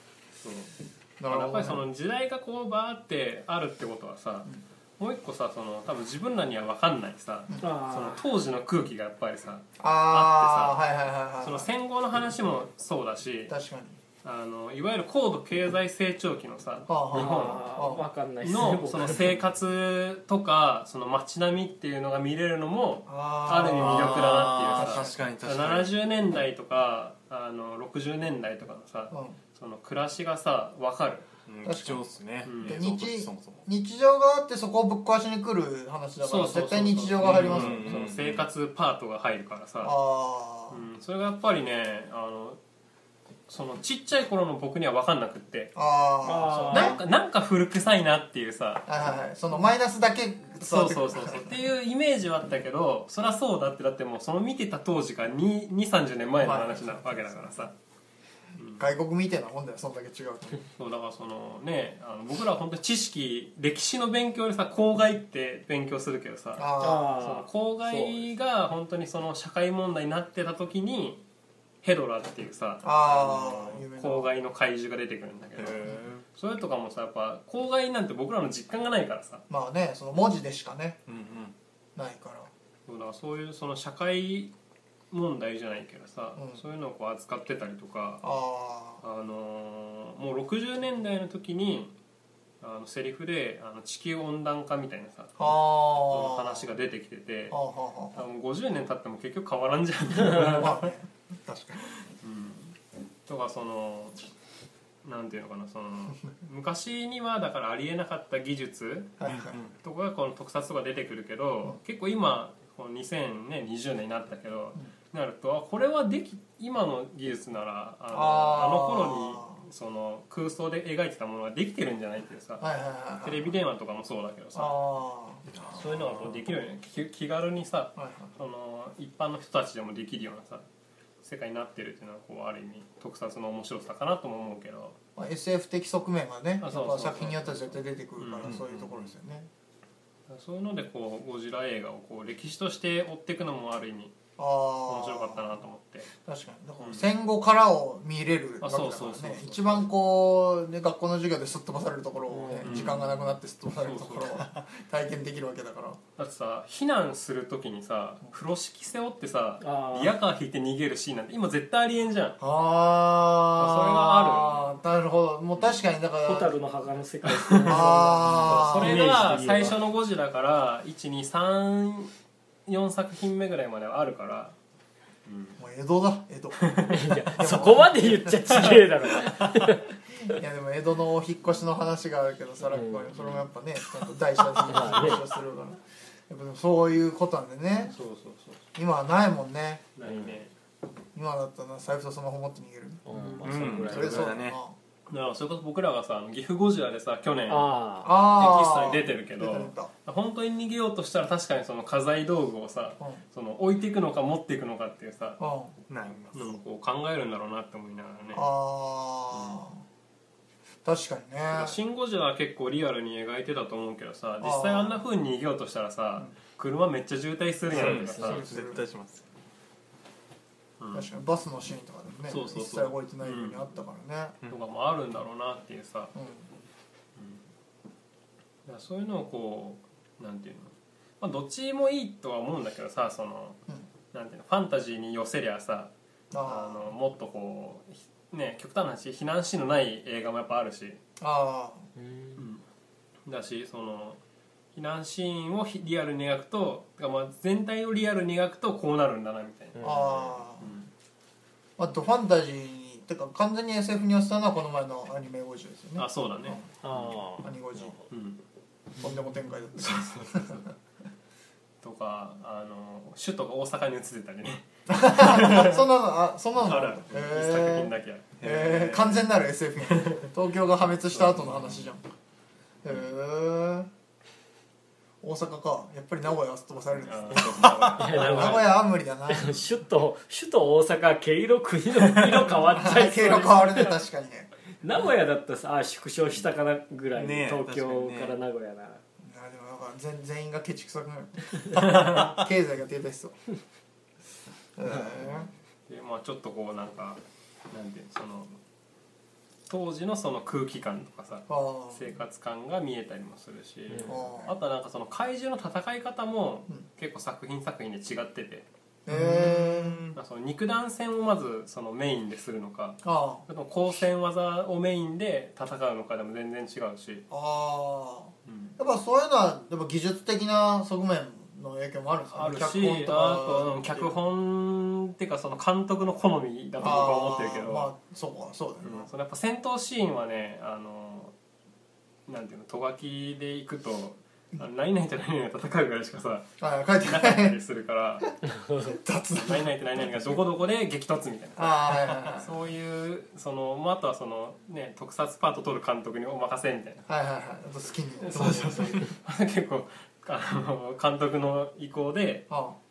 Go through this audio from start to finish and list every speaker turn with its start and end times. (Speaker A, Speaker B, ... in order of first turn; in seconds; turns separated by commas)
Speaker A: 0.4-0.7, Speaker B: 1.2-1.8, Speaker A: 1.3-10.8, Speaker C: 7.6-8.2, Speaker B: 9.8-11.7, Speaker A: 11.4-13.5, Speaker B: 13.5-14.0, Speaker A: 14.2-17.8, Speaker B: 16.9-18.1, Speaker C: 17.1-19.4, Speaker A: 18.4-31.3, Speaker B: 23.1-25.1, Speaker D: 23.8-25.9, Speaker B: 29.1-29.4, Speaker D: 31.5-33.6, Speaker B: 31.6-38.0, Speaker A: 32.4-32.8, Speaker A: 36.2-39.9, Speaker D: 37.2-38.5, Speaker B: 39.8-40.8, Speaker A: 40.7-42.6, Speaker A: 43.5-45.7, Speaker B: 45.7-47.0, Speaker C: 46.2-47.0, Speaker A: 46.4-48.9, Speaker B: 48.9-51.6, Speaker A: 50.6-57.7, Speaker B: 56.4-57.6, Speaker A: 58.6-58.8, Speaker B: 58.8-60.6, Speaker A: 60.7-71.2, Speaker B: 66.5-67.2, Speaker C: 66.8-68.2, Speaker A: 71.8-79.4, Speaker B: 72.8-74.3, Speaker D: 75.6-76.2, Speaker B: 79.5-81.0, Speaker D: 81.1-81.5, Speaker B: 82.0-82.5, Speaker A: 82.8-84.5, Speaker A: 85.1-88.2, Speaker B: 86.3-86.6, Speaker B: 88.2-89.0, Speaker A: 89.0-91.9, Speaker A: 92.6-97.6, Speaker B: 95.4-96.7, Speaker B: 97.5-98.2, Speaker A: 98.1-100.9, Speaker B: 100.2-101.9, Speaker A: 102.2-102.8, Speaker A: 103.3-104.2, Speaker A: 105.0-122.7, Speaker B: 109.2-109.6, Speaker D: 109.3-109.7, Speaker B: 118.1-119.6, Speaker B: 122.6-123.5, Speaker A: 123.2-124.8, Speaker B: 124.5-125.5, Speaker D: 125.5-126.2, Speaker A: 125.7-130.7, Speaker B: 128.0-128.3, Speaker A: 131.2-135.0, Speaker B: 135.2-139.5, Speaker A: 136.6-139.0, Speaker D: 138.4-138.8, Speaker A: 140.3-144.1, Speaker B: 144.4-145.6, Speaker A: 144.8-146.1, Speaker B: 146.2-156.0, Speaker A: 146.8-147.1, Speaker A: 148.6-149.9, Speaker C: 152.3-152.8, Speaker A: 152.6-154.4, Speaker A: 156.2-162.4, Speaker C: 159.6-160.1, Speaker B: 162.4-166.5, Speaker A: 163.6-164.7, Speaker C: 166.2-169.8, Speaker A: 167.3-172.1, Speaker B: 167.7-169.0, Speaker A: 172.7-174.5, Speaker A: 175.2-175.6, Speaker B: 175.6-176.7, Speaker A: 176.6-177.2, Speaker C: 176.9-179.9, Speaker B: 177.3-179.4, Speaker B: 180.2-187.9, Speaker C: 182.7-183.1, Speaker A: 183.2-183.4, Speaker C: 184.5-185.3, Speaker A: 187.8-188.6, Speaker B: 188.7-189.8, Speaker A: 189.9-190.5, Speaker C: 190.0-190.4, Speaker B: 191.1-193.0, Speaker C: 193.1-194.4, Speaker A: 193.1-193.8, Speaker D: 193.4-194.6, Speaker B: 193.8-194.8, Speaker A: 195.1-205.4, Speaker C: 197.5-198.1, Speaker B: 198.0-199.9, Speaker B: 205.4-205.7, Speaker D: 205.9-206.6, Speaker A: 206.3-208.4, Speaker B: 208.3-209.8, Speaker A: 209.3-209.6, Speaker B: 210.8-211.8, Speaker A: 211.5-218.5, Speaker B: 214.4-215.0, Speaker B: 217.7-218.8, Speaker D: 217.7-219.2, Speaker A: 220.8-221.1, Speaker B: 220.9-224.3, Speaker A: 222.3-223.7, Speaker A: 224.5-226.1, Speaker B: 226.1-226.4, Speaker A: 227.2-227.4, Speaker A: 228.7-233.6, Speaker A: 234.1-235.9, Speaker B: 236.3-236.9, Speaker A: 236.4-241.0, Speaker B: 241.2-241.8, Speaker C: 242.0-242.4, Speaker A: 242.3-242.6, Speaker A: 243.2-244.2, Speaker A: 244.7-250.9, Speaker C: 249.8-250.1, Speaker B: 249.8-250.7, Speaker B: 251.8-256.7, Speaker A: 255.9-257.1, Speaker C: 256.8-258.0, Speaker B: 257.4-258.0, Speaker A: 258.1-258.4, Speaker B: 259.0-260.7, Speaker A: 259.8-260.7, Speaker A: 261.8-265.8, Speaker B: 264.9-272.0, Speaker D: 266.6-267.2, Speaker A: 266.6-268.3, Speaker D: 268.4-269.4, Speaker A: 269.9-270.2, Speaker A: 271.1-271.9, Speaker B: 272.8-273.9, Speaker B: 275.2-279.6, Speaker A: 277.0-278.7, Speaker D: 277.4-278.1, Speaker C: 278.0-278.7, Speaker C: 279.3-284.0, Speaker B: 282.7-284.5, Speaker C: 284.8-289.0, Speaker D: 287.1-288.4, Speaker B: 289.2-293.4, Speaker A: 291.8-292.2, Speaker B: 294.8-295.5, Speaker A: 295.9-297.2, Speaker A: 297.7-298.5, Speaker A: 299.7-308.6, Speaker B: 301.5-302.1, Speaker C: 303.9-304.2, Speaker B: 304.0-304.6, Speaker B: 309.1-310.1, Speaker D: 309.1-310.2, Speaker A: 310.1-317.2, Speaker B: 313.0-313.4, Speaker B: 317.3-324.1, Speaker A: 318.4-318.8, Speaker A: 322.3-327.9, Speaker B: 326.8-329.1, Speaker A: 328.8-331.3, Speaker A: 332.3-336.5, Speaker B: 336.6-337.6, Speaker A: 337.0-338.3, Speaker C: 338.5-338.9, Speaker B: 338.8-340.4, Speaker A: 339.3-347.1, Speaker B: 341.6-342.5, Speaker B: 347.1-349.1, Speaker A: 348.2-352.5, Speaker B: 352.5-352.8